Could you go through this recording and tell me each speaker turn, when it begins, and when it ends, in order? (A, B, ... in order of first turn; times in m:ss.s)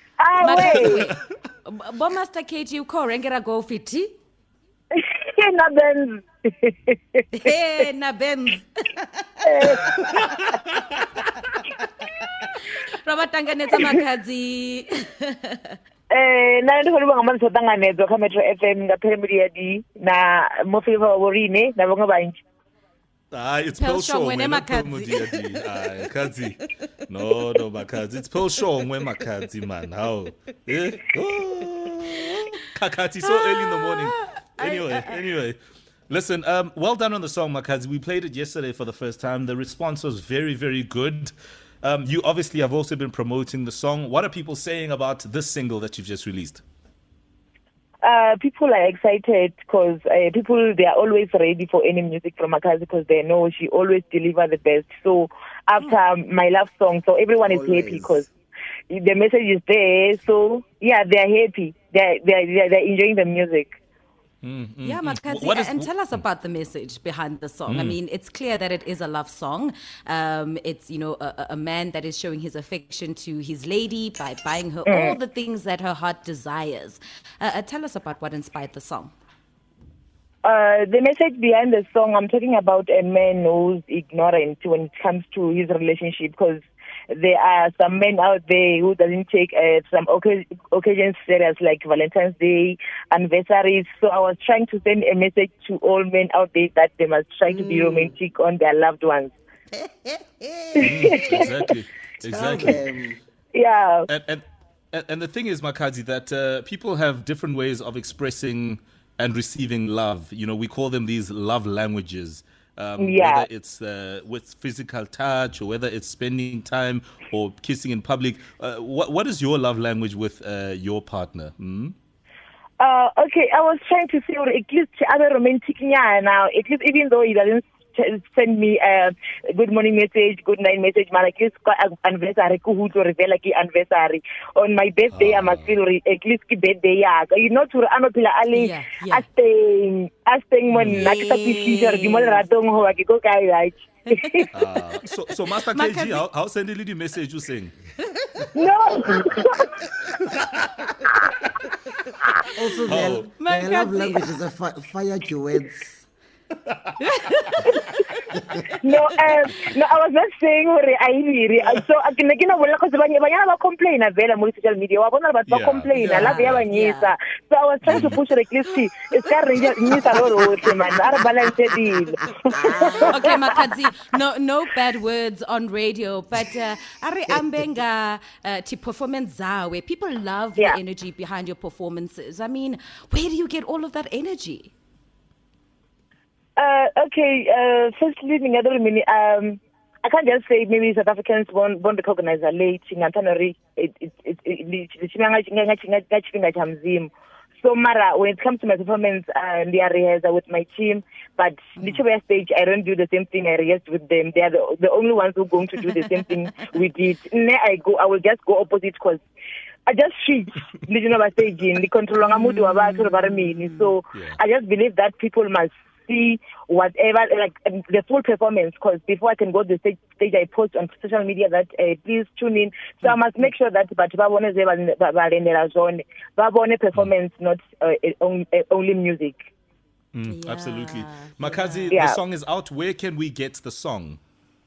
0:00.2-0:01.0 A
0:00.4-0:04.1 B
0:04.9-0:07.2 A
0:07.3-0:09.0 B
0:09.4-0:10.3 A
0:12.5-0:15.8 B
0:16.1-0:22.4 A
0:23.3-0:35.6 C
0:23.8-0:25.6 B
0:33.2-0:35.2 B
0:36.1-0:46.6 C
0:48.0-0:58.3 A
0:57.5-0:58.2 D
0:58.9-1:03.8 A
1:04.4-1:06.2 C
1:04.8-1:19.1 B
1:07.7-1:08.0 C
1:14.8-1:15.2 A
1:20.4-1:39.3 A
1:37.5-1:38.1 D
1:39.7-1:41.5 D
1:40.7-1:41.5 A
1:40.8-1:42.8 C
1:42.2-1:43.2 D
1:43.5-1:44.1 A
1:44.1-2:01.9 C
1:53.0-1:53.5 A
2:02.8-2:24.5 A
2:15.1-2:15.7 C
2:18.5-2:19.2 B
2:20.7-2:21.1 C
2:20.9-2:22.4 B
2:24.5-2:27.7 C
2:25.7-2:26.2 B
2:28.5-2:29.8 A
2:32.5-2:36.0 D
2:32.9-2:33.3 C
2:33.4-2:34.2 B
2:37.0-2:38.0 B
2:38.8-2:53.6 A
2:45.5-2:46.6 C
2:45.9-2:47.1 B
2:47.8-2:48.2 C
2:52.6-3:04.7 B
2:52.8-2:53.1 D
3:06.6-3:29.2 A
3:29.9-3:49.4 A
3:50.1-3:54.2 C
3:50.2-3:52.0 B
3:51.9-3:52.2 A